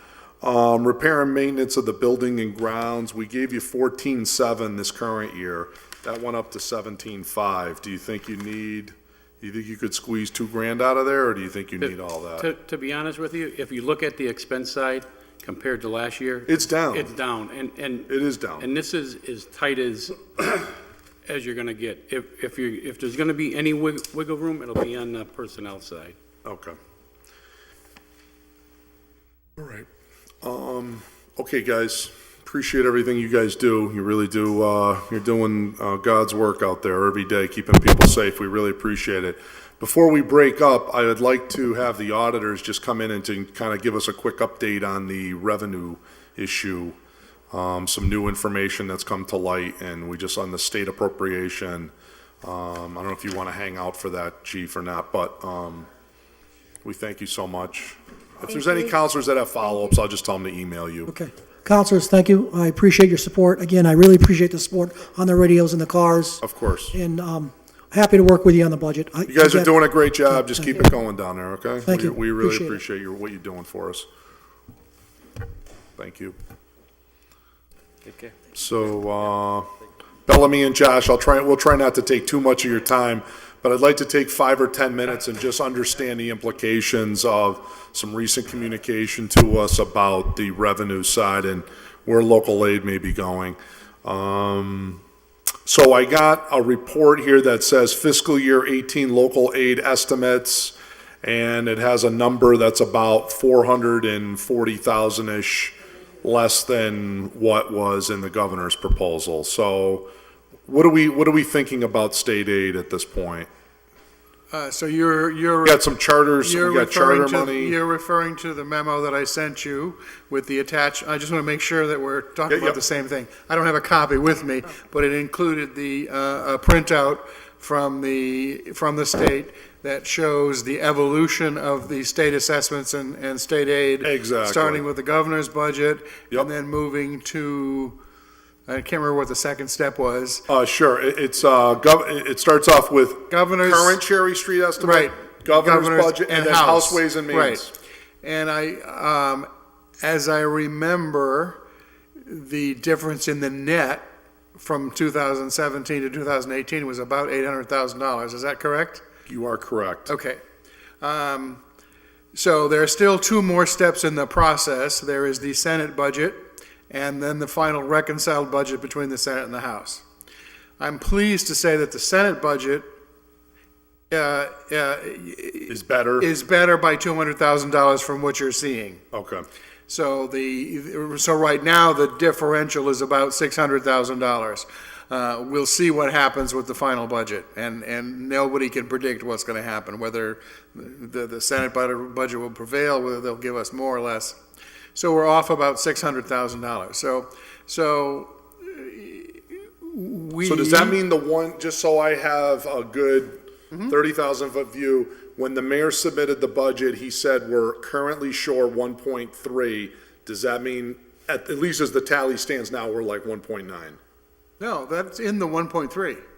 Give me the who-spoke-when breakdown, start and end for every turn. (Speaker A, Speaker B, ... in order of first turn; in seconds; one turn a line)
Speaker A: 0.4-12.5
Speaker B: 11.8-20.7
Speaker A: 16.5-17.1
Speaker A: 18.1-18.7
Speaker B: 21.2-26.1
Speaker A: 26.4-26.8
Speaker A: 29.6-29.9
Speaker A: 30.4-47.0
Speaker A: 47.5-51.9
Speaker A: 52.4-55.9
Speaker A: 56.8-61.1
Speaker C: 61.1-70.9
Speaker A: 66.4-67.0
Speaker A: 69.3-74.0
Speaker C: 71.8-72.8
Speaker A: 76.0-76.3
Speaker A: 78.5-79.7
Speaker A: 80.2-95.0
Speaker A: 95.7-110.1
Speaker A: 110.7-113.5
Speaker D: 114.5-138.0
Speaker A: 115.6-117.8
Speaker A: 122.5-122.8
Speaker A: 134.0-134.8
Speaker D: 138.7-140.4
Speaker A: 140.5-147.7
Speaker D: 143.3-144.0
Speaker D: 144.8-147.7
Speaker D: 148.2-149.5
Speaker D: 150.0-151.6
Speaker D: 152.2-159.0
Speaker A: 159.3-160.1
Speaker D: 160.1-160.4
Speaker D: 161.0-161.6
Speaker D: 162.3-170.0
Speaker D: 170.8-172.9
Speaker D: 174.1-179.0
Speaker A: 175.7-176.3
Speaker A: 179.1-179.4
Speaker D: 179.9-194.4
Speaker D: 194.9-201.0
Speaker A: 200.4-214.0
Speaker D: 214.6-216.2